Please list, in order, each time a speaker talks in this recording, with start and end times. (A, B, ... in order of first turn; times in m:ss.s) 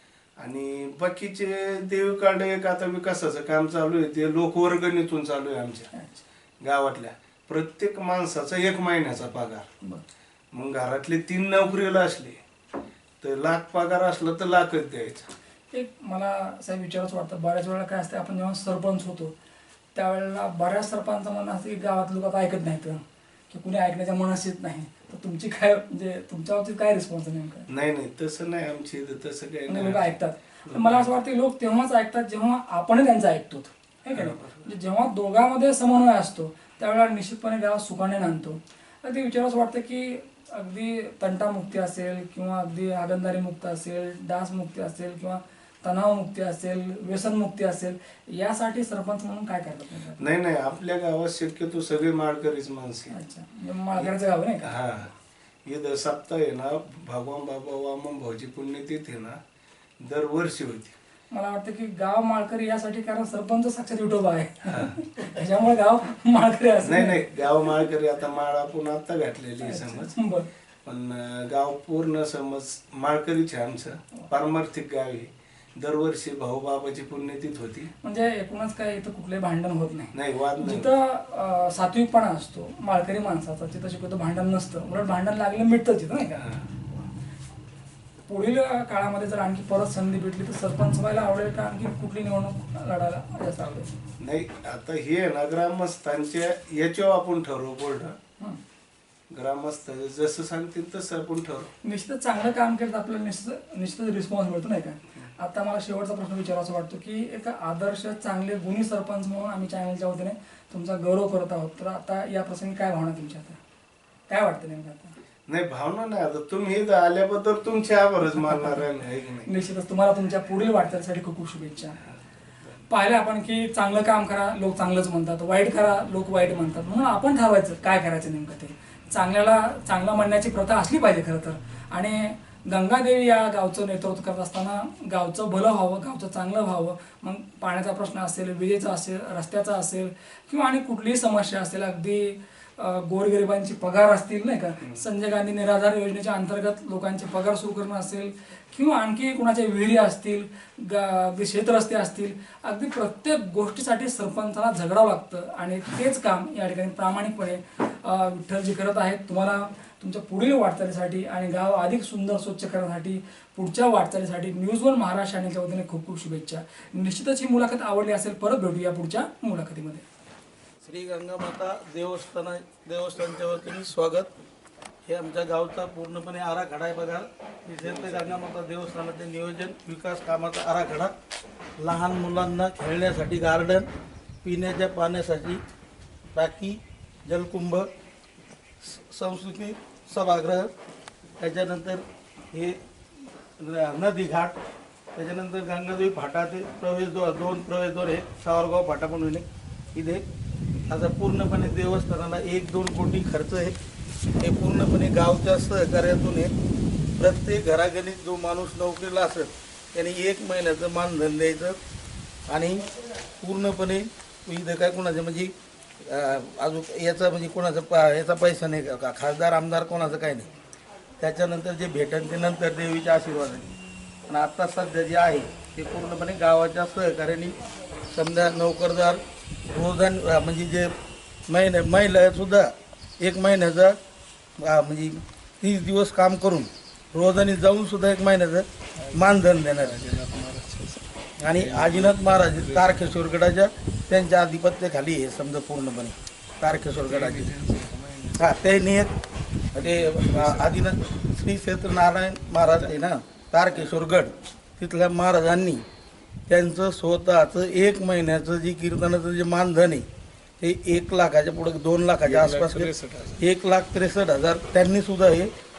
0:00.4-0:05.9 A
0:05.9-0:06.2 B
0:06.6-0:09.7 A
0:10.5-0:12.4 A
0:13.2-0:15.3 A
0:15.7-0:19.3 B
0:20.0-0:27.7 B
0:27.7-0:31.1 A
0:29.7-0:50.2 B
0:34.1-0:34.7 A
0:50.2-0:53.1 A
0:53.1-0:54.8 B
0:54.7-0:55.1 A
0:55.7-0:59.4 A
1:00.0-1:01.0 A
1:01.3-1:07.7 B
1:04.7-1:04.9 A
1:06.8-1:10.2 A
1:09.6-1:10.5 B
1:10.8-1:17.9 A
1:18.0-1:26.4 B
1:20.1-1:20.9 A
1:28.3-1:33.9 B
1:34.2-1:38.2 A
1:39.3-1:41.7 A
1:41.8-1:53.6 B
1:54.3-1:55.1 B
1:55.5-1:59.5 A
1:58.3-1:58.9 B
1:59.4-2:02.0 B
2:02.9-2:50.0 B
2:50.8-2:54.3 C
2:55.1-3:01.1 C
3:01.8-3:03.9 C
3:04.4-3:05.6 C
3:06.3-3:07.9 C
3:08.8-3:10.7 C
3:11.4-3:12.8 C
3:13.6-3:14.6 C
3:15.2-3:20.2 C
3:20.9-3:23.8 C
3:24.4-3:26.5 C
3:27.2-3:31.8 C
3:32.5-3:32.8 C
3:33.4-3:40.5 C
3:41.2-3:43.7 C
3:44.3-3:47.6 C
3:48.1-3:50.9 C
3:51.5-3:54.0 C
3:54.6-4:00.0 C
3:59.0-4:03.2 A
4:01.4-4:07.5 C
4:06.8-4:08.5 A
4:08.4-4:09.1 C
4:09.7-4:15.8 C
4:09.8-4:10.8 A
4:16.5-4:20.1 C
4:20.6-4:25.5 C
4:22.2-4:23.4 A